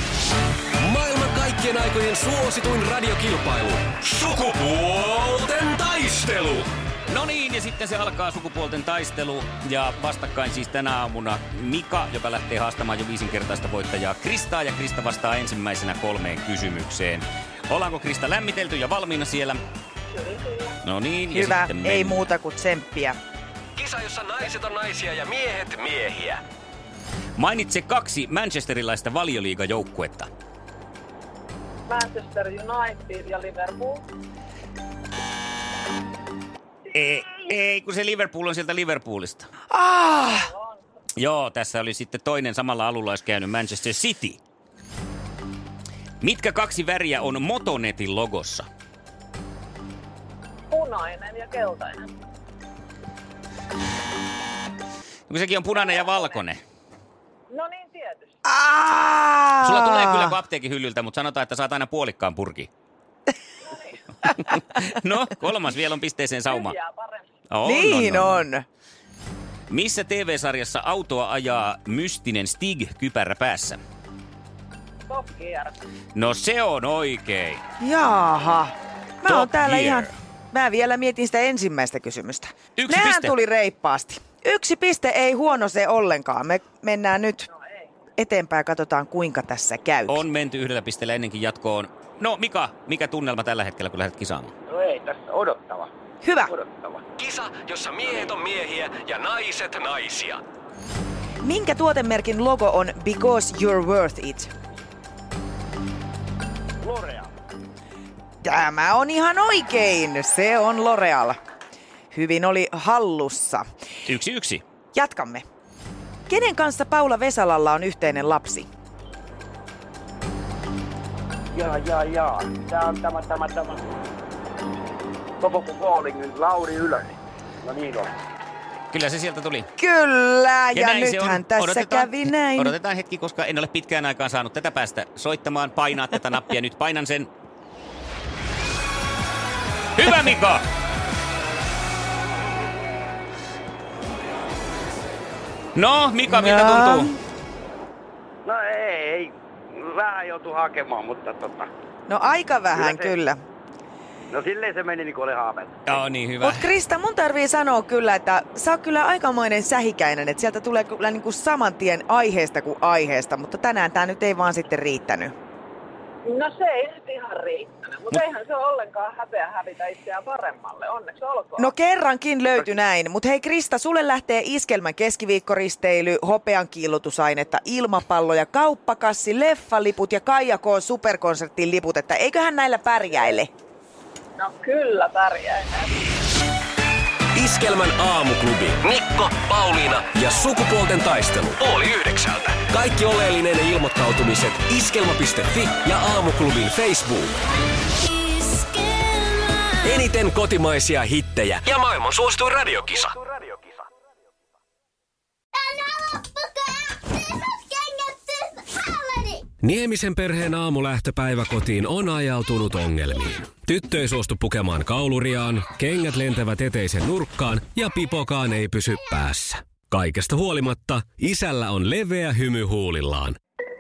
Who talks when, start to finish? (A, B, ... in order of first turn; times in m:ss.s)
0:00.8-0:06.7 A
0:07.1-0:19.6 B
0:20.1-0:20.8 C
0:20.8-0:22.2 B
0:21.3-0:23.2 D
0:23.8-0:26.4 A
0:27.4-0:30.3 B
0:31.9-0:34.1 C
0:36.9-0:39.5 B
0:39.7-0:40.5 D
0:40.3-0:40.8 C
0:41.2-0:44.4 B
0:46.2-0:48.7 B
0:50.7-0:52.1 C
0:55.3-0:56.6 B
0:57.5-0:58.3 C
0:58.4-1:00.4 D
0:59.6-1:02.7 B
1:03.7-1:04.0 C
1:04.3-1:06.8 B
1:06.5-1:07.3 C
1:07.5-1:08.5 B
1:07.6-1:08.6 D
1:09.7-1:13.8 B
1:15.1-1:15.8 C
1:16.2-1:17.6 B
1:17.8-1:27.5 D
1:19.3-1:20.1 B
1:22.8-1:23.4 B
1:28.2-1:30.2 D
1:30.1-1:34.5 B
1:34.7-1:35.9 E
1:36.2-1:36.6 D
1:36.5-1:37.0 E
1:37.2-1:40.4 A
1:41.4-1:44.5 D
1:46.8-1:47.3 E
1:48.4-1:51.4 D
1:52.1-1:53.6 D
1:54.1-1:54.6 B
1:54.9-1:55.4 D
1:56.3-1:58.7 D
2:01.5-2:03.8 E
2:05.4-2:08.1 E
2:08.9-2:09.7 B
2:09.8-2:12.8 D
2:10.7-2:17.3 B
2:20.0-2:20.6 B
2:25.8-2:27.1 B
2:26.3-2:27.2 D
2:28.4-2:31.7 E
2:32.1-2:33.4 D
2:32.7-2:33.2 E
2:34.3-2:36.0 E
2:35.9-2:36.6 B
2:36.4-2:45.3 D
2:46.3-2:51.7 C
2:51.6-3:03.5 D
3:04.4-3:06.0 C
3:07.3-3:17.4 A
3:19.6-3:23.4 A
3:29.6-3:43.4 A